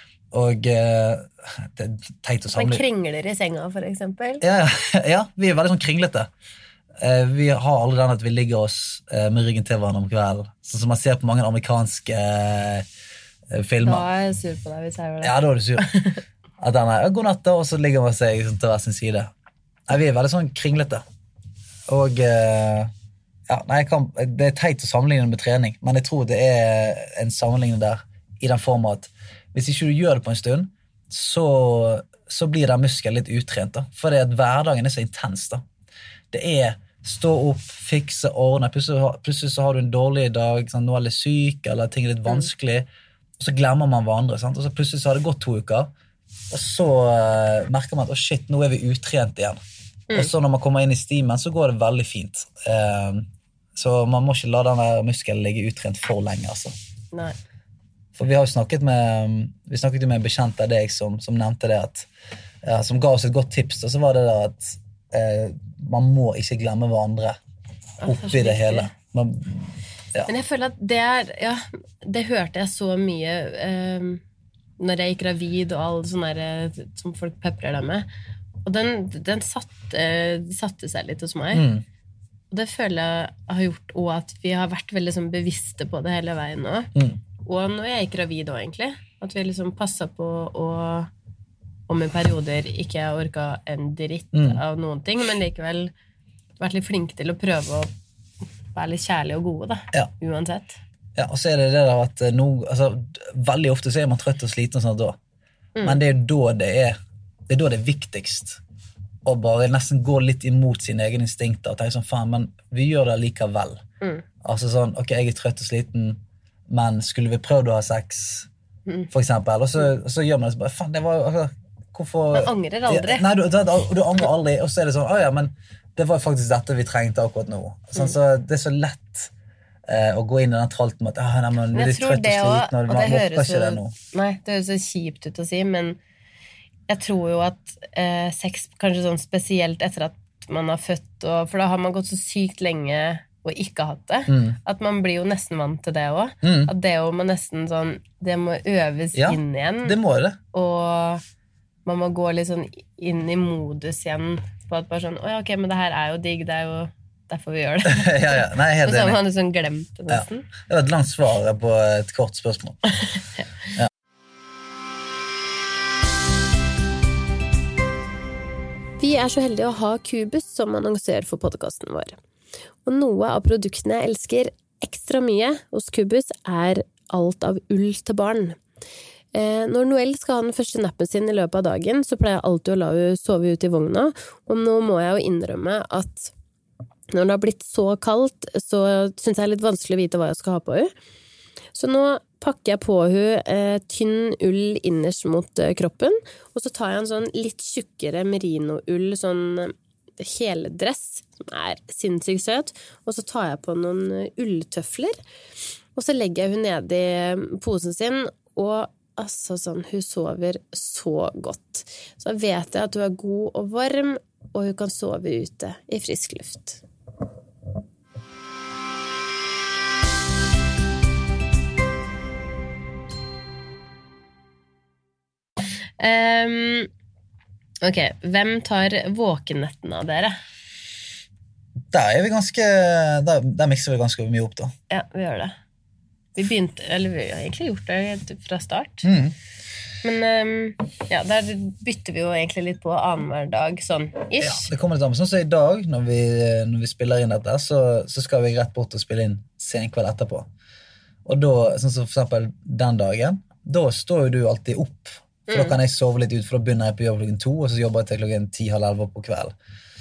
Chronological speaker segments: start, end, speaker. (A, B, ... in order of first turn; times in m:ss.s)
0:00.3-0:02.8 A
0:02.5-0:04.4 B
0:04.4-0:06.3 A
0:07.0-0:12.8 A
0:13.5-0:14.0 A
0:13.8-0:16.2 B
0:15.2-0:15.9 A
0:16.6-0:19.3 A
0:19.9-0:21.0 A
0:21.9-0:22.9 A
0:23.5-0:35.6 A
0:36.3-0:42.9 A
0:43.4-0:45.9 A
0:46.5-0:49.6 A
0:50.1-0:56.7 A
0:58.2-1:02.1 A
1:02.6-1:07.4 A
1:08.0-1:08.9 B
1:08.0-1:10.3 A
1:10.2-1:14.2 B
1:14.8-1:18.1 B
1:18.6-1:21.7 B
1:21.5-1:21.8 A
1:22.5-1:26.9 B
1:27.4-1:31.1 B
1:31.9-1:35.9 B
1:34.3-1:34.6 A
1:36.6-1:37.9 B
1:38.7-1:40.8 B
1:41.2-1:45.2 A
1:45.8-1:47.0 A
1:47.5-1:48.6 A
1:49.2-1:53.8 A
1:54.4-1:58.5 A
1:59.1-2:09.3 A
2:02.3-2:03.2 B
2:09.9-2:13.9 A
2:11.7-2:16.0 B
2:16.9-2:30.0 B
2:24.3-2:24.6 A
2:26.4-2:26.7 A
2:29.1-2:30.4 A
2:30.5-2:31.2 B
2:31.8-2:40.5 B
2:37.8-2:39.2 A
2:40.1-2:42.8 A
2:49.0-2:52.2 B
2:52.8-2:58.6 B
2:59.3-3:06.3 B
3:07.1-3:10.9 B
3:11.7-3:25.2 B
3:25.9-3:36.8 B
3:46.0-3:46.9 B
3:47.8-3:50.4 B
3:51.9-3:54.7 A
3:54.9-3:55.5 B
3:56.4-3:59.1 B
3:59.0-3:59.3 A
4:00.0-4:04.7 B
4:04.4-4:10.5 A
4:11.2-4:19.5 A
4:15.5-4:15.8 B